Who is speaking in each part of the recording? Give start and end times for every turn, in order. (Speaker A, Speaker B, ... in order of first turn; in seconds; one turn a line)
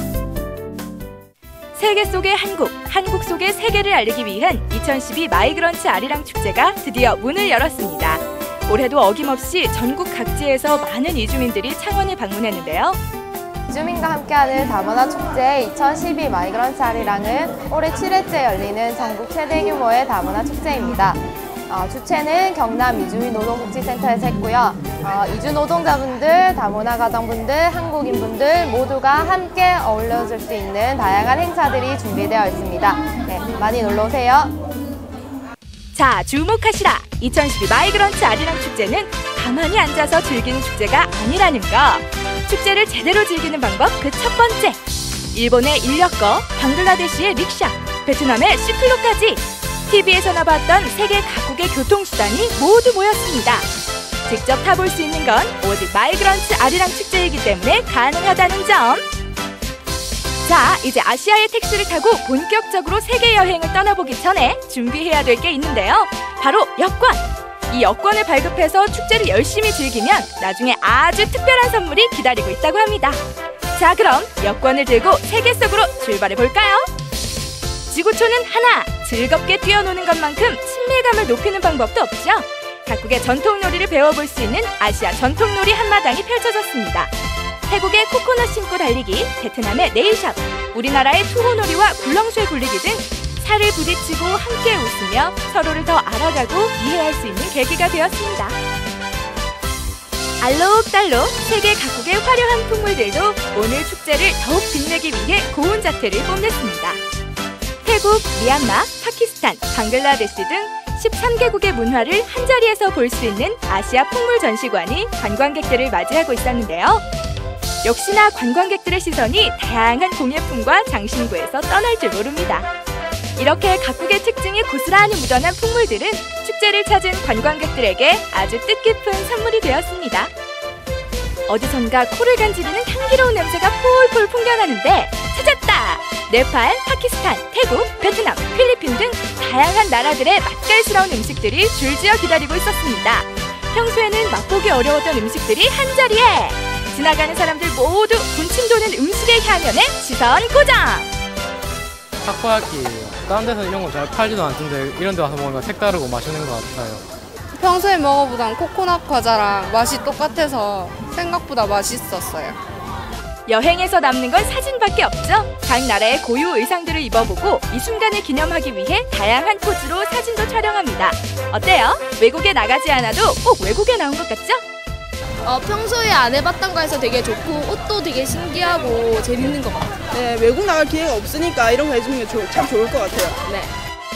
Speaker A: 1.8-13.0
Speaker B: 13.7-34.6
Speaker A: 35.9-44.8
Speaker A: 45.3-53.7
Speaker A: 54.2-59.1
Speaker A: 60.4-76.9
Speaker A: 77.9-87.1
Speaker A: 87.7-98.6
Speaker A: 100.4-107.0
Speaker A: 107.8-117.0
Speaker A: 117.8-122.7
Speaker A: 123.4-130.3
Speaker A: 131.5-151.1
Speaker C: 152.2-157.0
Speaker D: 157.6-162.6
Speaker A: 163.5-174.6
Speaker E: 175.4-180.1
Speaker F: 180.1-183.7